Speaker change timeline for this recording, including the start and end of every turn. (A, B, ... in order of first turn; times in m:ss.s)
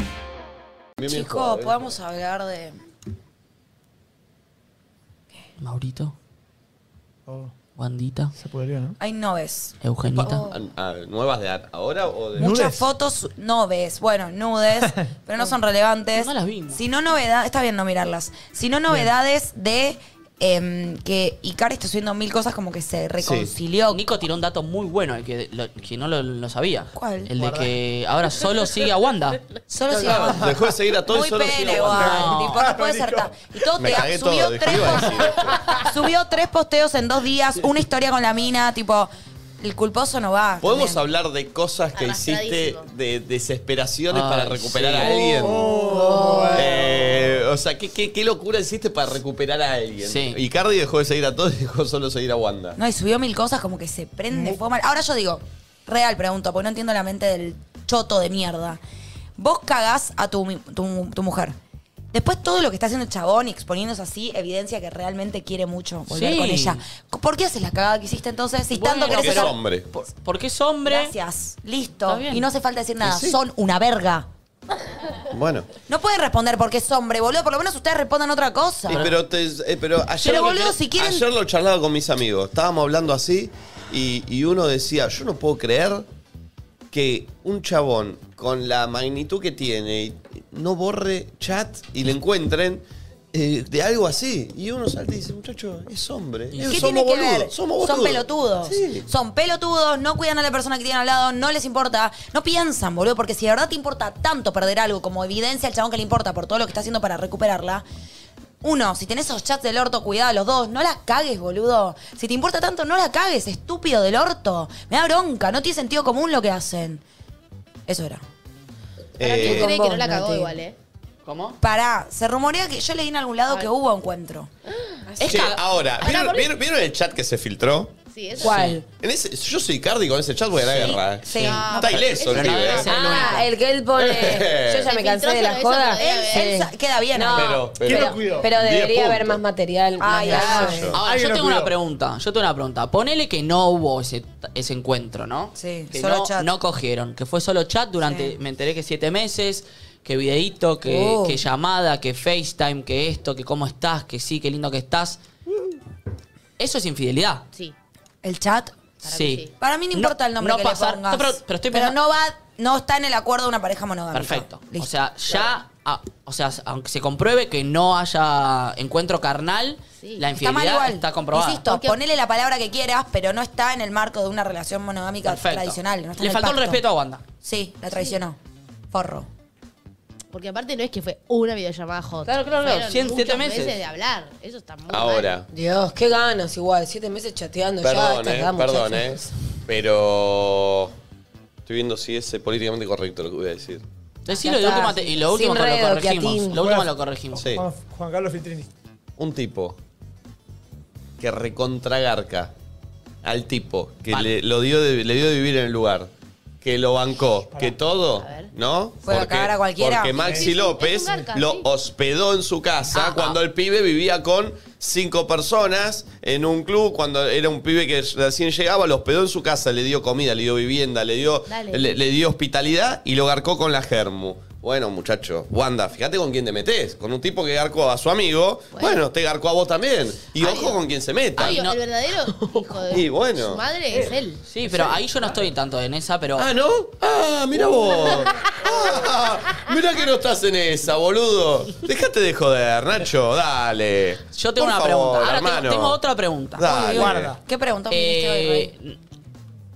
0:01.0-0:01.9 A
0:01.0-0:02.8 B
0:05.6-0:06.1 C
0:07.3-0:07.5 D
0:07.8-0:08.3 C
0:08.4-0:09.0 D
0:09.0-0:09.8 B
0:09.8-0:10.5 C
0:10.2-0:12.5 A
0:12.4-0:12.8 D
0:12.4-0:24.0 B
0:16.2-0:16.8 C
0:23.2-0:23.5 A
0:23.9-0:29.4 C
0:26.9-0:27.3 B
0:27.4-0:27.7 D
0:29.7-0:30.5 B
0:29.9-0:30.7 D
0:30.0-0:32.3 A
0:31.1-0:35.2 B
0:31.6-0:32.6 C
0:31.8-0:33.4 D
0:33.8-0:35.7 A
0:35.0-0:35.9 D
0:35.8-0:41.0 B
0:40.6-0:45.7 A
0:41.9-0:42.9 E
0:44.1-0:45.1 C
0:45.0-0:47.4 D
0:45.5-0:46.8 F
0:46.5-0:52.8 A
0:50.0-0:50.4 C
0:52.8-0:58.8 B
0:54.3-0:54.6 D
0:59.4-1:01.6 B
1:02.1-1:09.6 B
1:06.1-1:06.8 C
1:08.7-1:11.1 C
1:09.1-1:09.9 A
1:10.8-1:14.3 B
1:12.0-1:12.4 C
1:13.0-1:13.4 A
1:15.3-1:15.7 A
1:15.9-1:19.1 B
1:18.9-1:26.0 A
1:18.9-1:19.1 C
1:20.2-1:21.3 B
1:26.9-1:39.0 A
1:36.5-1:36.9 C
1:36.7-1:47.8 B
1:48.6-1:57.0 B
1:57.9-1:58.2 B
1:59.2-1:59.7 A
1:59.2-2:00.8 E
1:59.2-2:00.6 F
2:01.2-2:01.6 C
2:01.6-2:04.5 B
2:05.2-2:06.2 C
2:05.2-2:13.0 A
2:06.0-2:06.3 E
2:08.1-2:08.7 E
2:08.4-2:08.8 F
2:08.4-2:08.8 C
2:10.7-2:11.0 C
2:10.9-2:12.2 B
2:11.4-2:13.2 E
2:12.2-2:13.5 C
2:12.9-2:20.9 F
2:14.0-2:14.9 A
2:14.8-2:16.6 E
2:16.0-2:17.7 B
2:17.3-2:19.4 A
2:17.8-2:18.5 D
2:20.0-2:20.9 B
2:20.3-2:21.0 A
2:20.9-2:35.2 C
2:21.0-2:21.7 D
2:25.6-2:26.5 B
2:28.0-2:28.3 B
2:30.8-2:31.4 B
2:36.6-2:37.4 C
2:38.2-2:38.7 B
2:39.0-2:39.5 E
2:39.0-2:42.0 C
2:39.6-2:44.9 B
2:44.1-2:51.6 C
2:50.3-2:56.8 B
2:51.7-2:52.0 E
2:55.2-2:57.2 C
2:57.4-2:58.4 B
2:58.9-2:59.3 B
3:00.3-3:05.3 E
3:02.3-3:03.8 C
3:04.9-3:05.5 A
3:05.5-3:09.2 F
3:07.8-3:10.9 A
3:11.6-3:13.8 A
3:14.2-3:17.5 C
3:14.3-3:16.6 F
3:16.6-3:16.9 D
3:17.3-3:17.6 A
3:17.4-3:18.7 D
3:19.2-3:19.8 A
3:21.2-3:22.5 A
3:23.2-3:26.1 A
3:26.6-3:51.6 A
3:28.2-3:28.5 E
3:29.0-3:30.4 B
3:30.2-3:30.5 D
3:30.2-3:31.7 E
3:32.9-3:33.4 C
3:41.5-3:42.0 E
3:48.7-3:49.0 E
3:50.4-3:50.8 E
3:51.4-3:54.4 E
3:51.4-3:51.8 C
3:52.9-3:53.6 A
3:54.5-3:56.5 C
3:56.4-4:06.0 A
4:04.3-4:06.6 C
4:06.6-4:07.4 A
4:06.6-4:08.7 B
4:06.9-4:07.4 D
4:07.9-4:09.0 C